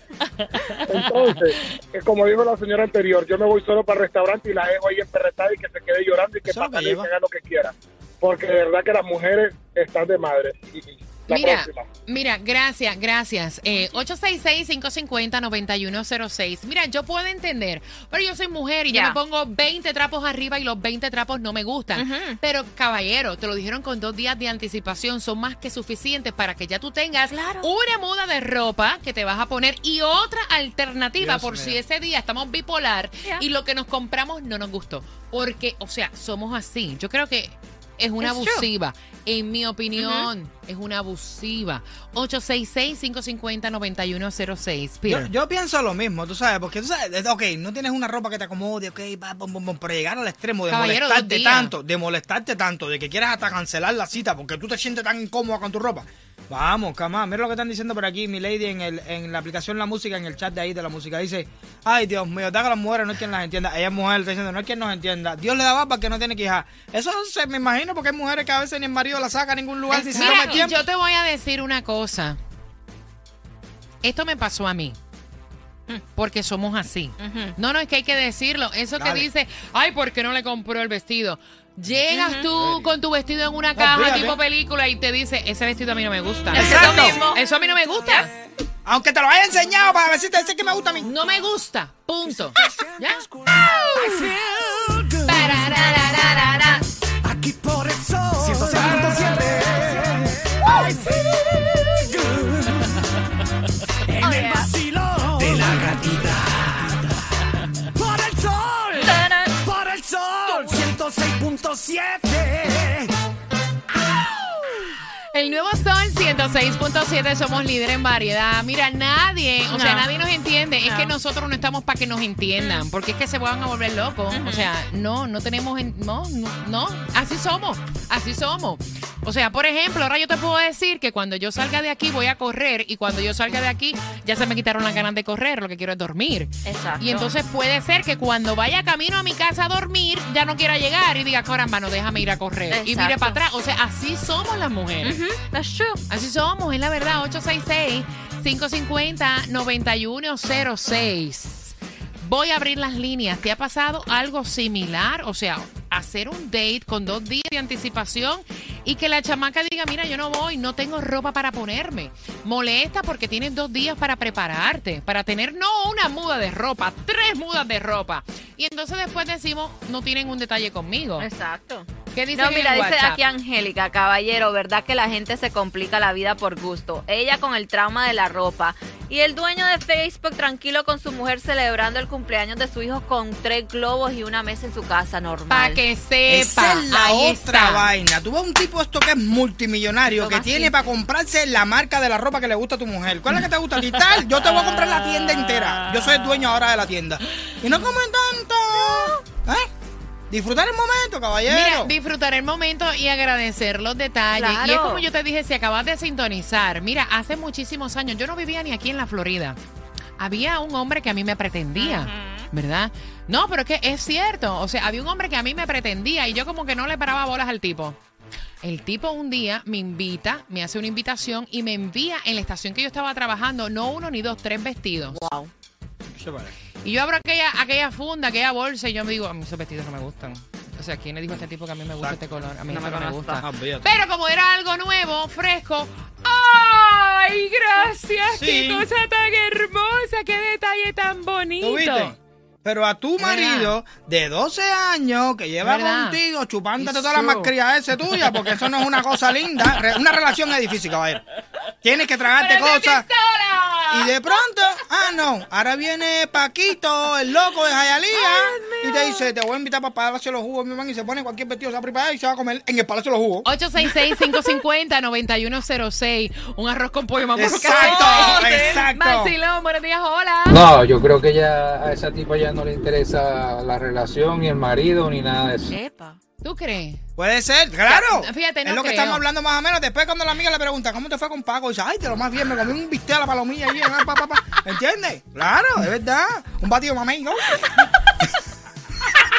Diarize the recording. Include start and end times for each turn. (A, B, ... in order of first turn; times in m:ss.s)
0:00.9-0:11.9 A
0:06.5-0:07.1 B
0:11.3-0:45.3 C
0:18.9-0:19.2 D
0:22.0-0:22.4 D
0:27.3-0:27.7 D
0:31.2-0:31.8 B
0:38.2-0:38.7 D
0:40.0-0:40.3 D
0:45.1-1:10.8 B
0:50.7-0:51.7 C
1:09.9-1:10.7 D
1:10.1-1:12.4 C
1:14.0-1:15.0 C
1:16.2-1:28.3 C
1:17.2-1:17.5 D
1:19.0-1:19.3 B
1:22.1-1:22.4 D
1:22.6-1:22.9 B
1:23.8-1:24.4 B
1:26.5-1:27.4 D
1:26.6-1:27.2 B
1:28.8-1:31.1 B
1:31.0-1:33.2 C
1:32.3-1:36.2 E
1:35.3-1:36.8 C
1:35.7-1:36.7 D
1:37.2-1:42.9 E
1:44.1-1:47.0 E
1:44.2-1:44.7 D
1:48.0-1:53.1 E
1:49.0-1:49.5 D
1:55.3-2:25.2 C
1:59.7-2:00.1 D
2:00.8-2:01.1 D
2:02.6-2:02.9 D
2:04.3-2:04.7 D
2:16.6-2:17.3 D
2:22.7-2:23.4 D
2:25.0-2:26.0 D
2:26.1-2:51.3 C
2:51.2-3:05.8 D
2:52.1-2:53.2 C
3:05.5-3:07.9 C
3:06.3-3:19.7 B
3:10.1-3:10.7 D
3:18.8-3:19.2 D
3:20.3-3:21.9 B
3:21.5-3:29.6 C
3:24.3-3:25.0 D
3:30.2-3:38.0 C
3:31.8-3:32.5 D
3:38.6-3:45.2 C
3:45.1-3:45.5 D
3:46.1-3:46.5 B
3:46.8-4:02.1 C
3:52.7-3:53.4 D
3:53.4-3:53.9 B
3:58.3-3:58.9 B
4:01.6-4:11.3 B
4:03.2-4:03.8 C
4:05.6-4:06.2 C
4:06.8-4:07.5 C
4:11.8-4:13.1 B
4:12.3-4:14.1 C
4:13.9-4:23.5 B
4:18.1-4:19.3 C
4:23.4-4:30.6 C
4:27.4-4:29.3 B
4:27.6-4:28.7 D
4:30.5-4:35.8 E
4:35.7-4:36.2 D
4:36.4-4:37.0 C
4:37.2-4:47.7 B
4:37.9-4:39.2 C